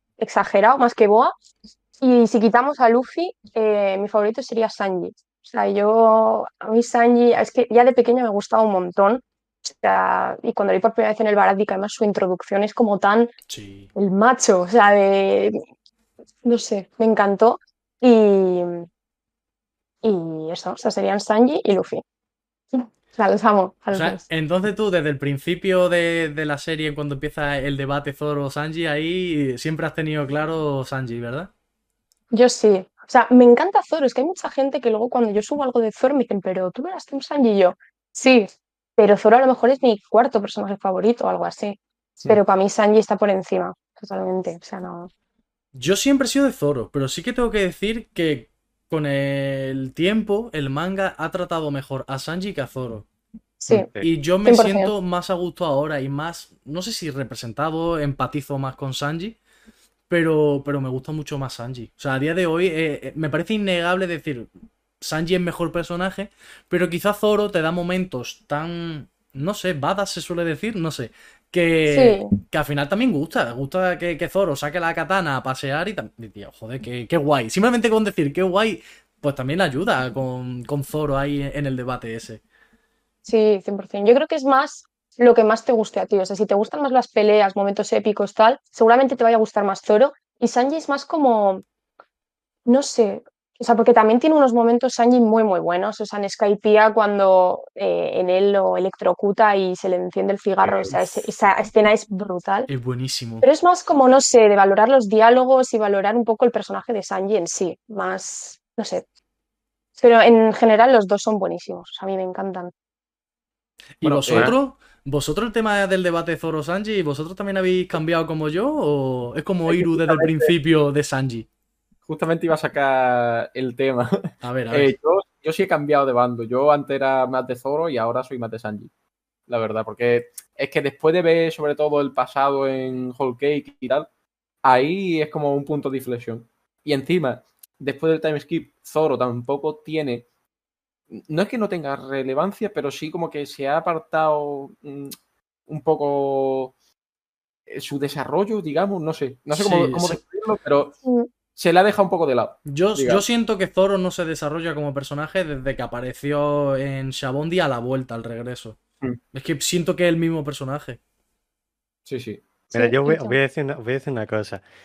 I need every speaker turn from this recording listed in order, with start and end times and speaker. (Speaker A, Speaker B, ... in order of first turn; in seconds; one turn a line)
Speaker A: 0.2-1.3
Speaker A: 2.0-13.3
Speaker B: 13.5-13.9
Speaker A: 13.9-15.6
Speaker A: 16.4-18.9
Speaker A: 20.0-22.0
Speaker A: 22.7-24.2
Speaker B: 23.9-31.5
Speaker A: 32.3-45.1
Speaker B: 45.8-53.1
Speaker A: 53.6-53.9
Speaker C: 53.7-54.1
Speaker B: 54.0-59.4
Speaker A: 54.5-54.9
Speaker B: 60.1-64.5
Speaker B: 65.0-82.4
Speaker A: 71.9-72.3
Speaker A: 83.3-91.6
Speaker A: 92.7-102.7
Speaker D: 100.7-101.2
Speaker B: 102.7-103.5
Speaker A: 103.4-109.0
Speaker A: 110.0-112.7
Speaker B: 114.0-121.5
Speaker D: 114.0-114.5
Speaker D: 119.7-120.5
Speaker D: 122.1-128.9
Speaker B: 124.4-124.9
Speaker D: 129.5-134.1
Speaker D: 134.6-140.2
Speaker D: 141.1-145.2
Speaker D: 145.7-146.7
Speaker D: 147.7-151.0
Speaker B: 149.5-150.2
Speaker D: 151.6-153.2
Speaker B: 152.7-158.8
Speaker B: 159.3-161.0
Speaker D: 162.1-162.5
Speaker C: 162.7-164.6
Speaker A: 162.7-163.4